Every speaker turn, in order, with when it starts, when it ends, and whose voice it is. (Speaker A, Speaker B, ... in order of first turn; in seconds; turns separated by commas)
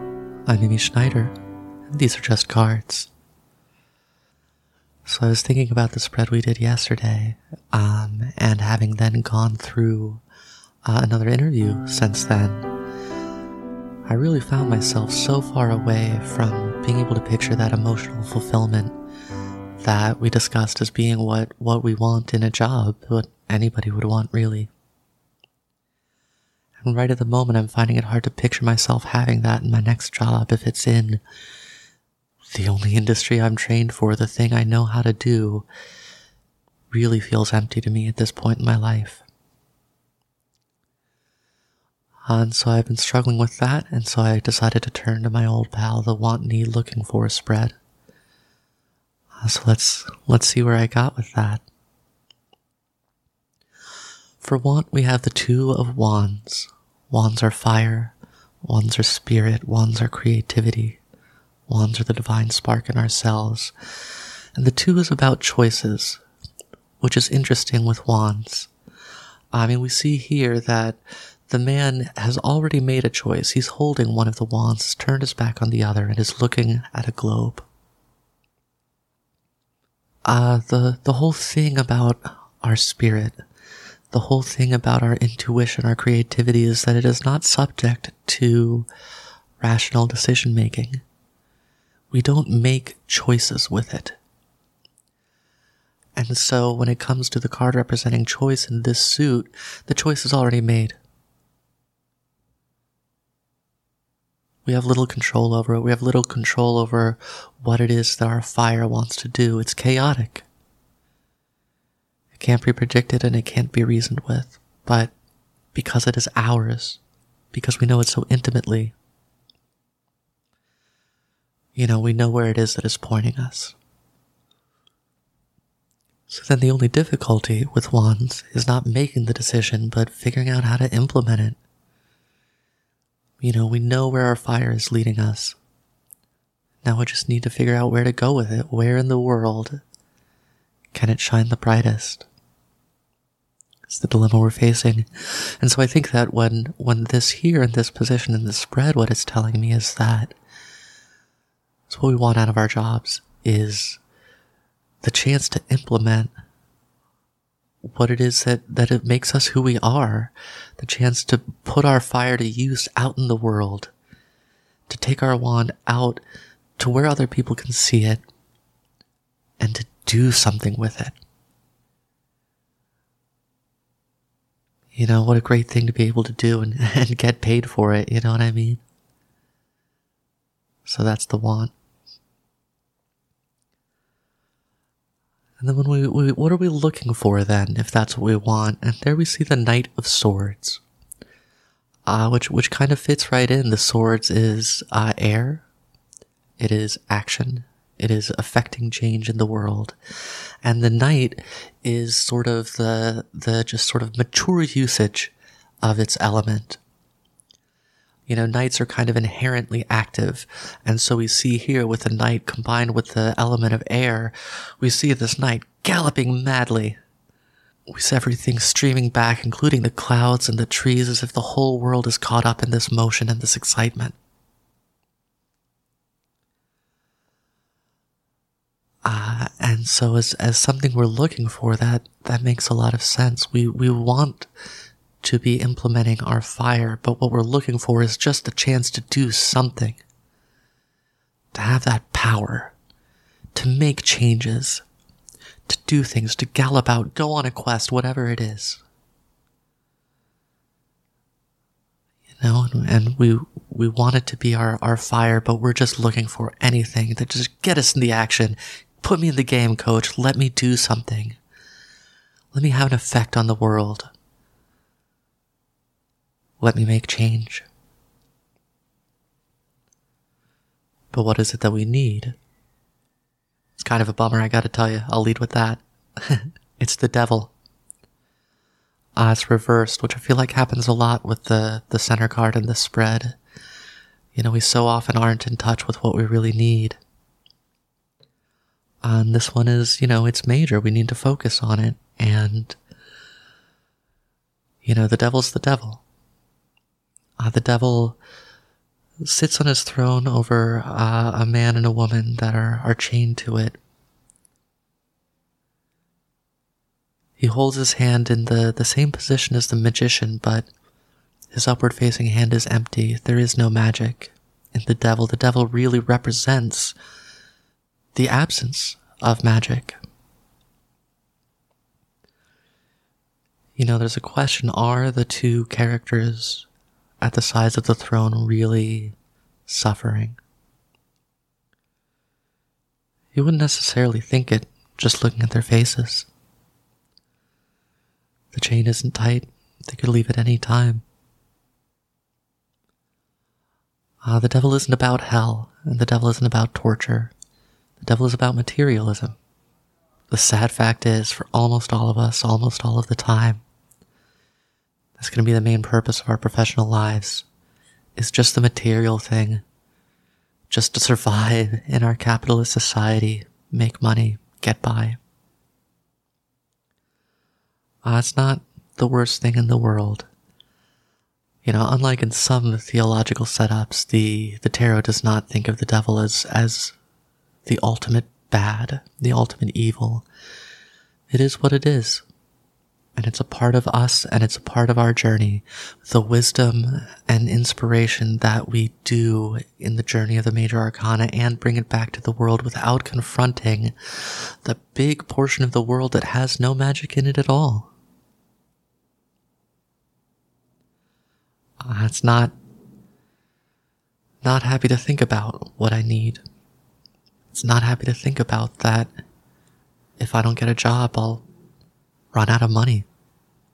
Speaker A: 0.5-1.3, Speaker A: 1.9-3.1, Speaker A: 5.0-10.2, Speaker A: 10.8-12.7, Speaker A: 14.1-18.9, Speaker A: 19.8-24.7, Speaker A: 26.8-31.2, Speaker A: 32.5-35.7, Speaker A: 36.9-39.2, Speaker A: 42.3-47.8, Speaker A: 49.4-51.6, Speaker A: 54.4-61.0, Speaker A: 61.7-63.7, Speaker A: 64.5-66.2, Speaker A: 67.0-68.7, Speaker A: 69.5-77.7, Speaker A: 80.3-83.4, Speaker A: 84.1-88.9, Speaker A: 89.6-91.0, Speaker A: 92.1-94.2, Speaker A: 96.2-101.0, Speaker A: 104.7-110.5, Speaker A: 112.4-115.1, Speaker A: 115.7-117.0, Speaker A: 117.5-119.0, Speaker A: 121.8-123.8, Speaker A: 126.3-131.6, Speaker A: 133.4-135.6, Speaker A: 136.8-139.8, Speaker A: 140.9-142.3, Speaker A: 143.9-150.3, Speaker A: 151.9-154.0, Speaker A: 155.0-156.3, Speaker A: 157.8-163.9, Speaker A: 164.9-166.2, Speaker A: 166.8-168.2, Speaker A: 169.6-171.2, Speaker A: 174.9-178.8, Speaker A: 180.8-181.7, Speaker A: 185.6-190.8, Speaker A: 192.1-195.7, Speaker A: 196.6-199.9, Speaker A: 200.6-206.8, Speaker A: 208.3-217.0, Speaker A: 217.9-224.2, Speaker A: 229.1-234.5, Speaker A: 235.2-240.0, Speaker A: 241.5-242.8, Speaker A: 243.6-244.8, Speaker A: 245.7-248.8, Speaker A: 252.4-261.4, Speaker A: 262.5-264.1, Speaker A: 266.6-267.7, Speaker A: 271.1-272.4, Speaker A: 273.8-277.5, Speaker A: 279.2-283.4, Speaker A: 284.3-287.0, Speaker A: 289.0-292.8, Speaker A: 294.8-296.0, Speaker A: 297.4-298.2, Speaker A: 299.2-303.8, Speaker A: 307.4-310.7, Speaker A: 311.5-316.9, Speaker A: 318.1-320.0, Speaker A: 323.8-326.7, Speaker A: 327.2-329.1, Speaker A: 329.7-330.4, Speaker A: 333.3-336.3, Speaker A: 338.5-341.0, Speaker A: 344.2-347.3, Speaker A: 348.0-349.4, Speaker A: 350.3-353.6, Speaker A: 355.2-357.5, Speaker A: 358.2-359.6, Speaker A: 360.7-365.2, Speaker A: 368.0-370.3, Speaker A: 371.6-376.9, Speaker A: 377.6-380.3, Speaker A: 381.3-382.2, Speaker A: 383.2-397.9, Speaker A: 401.8-402.5, Speaker A: 404.4-406.4, Speaker A: 407.5-409.1, Speaker A: 410.2-411.4, Speaker A: 412.3-413.1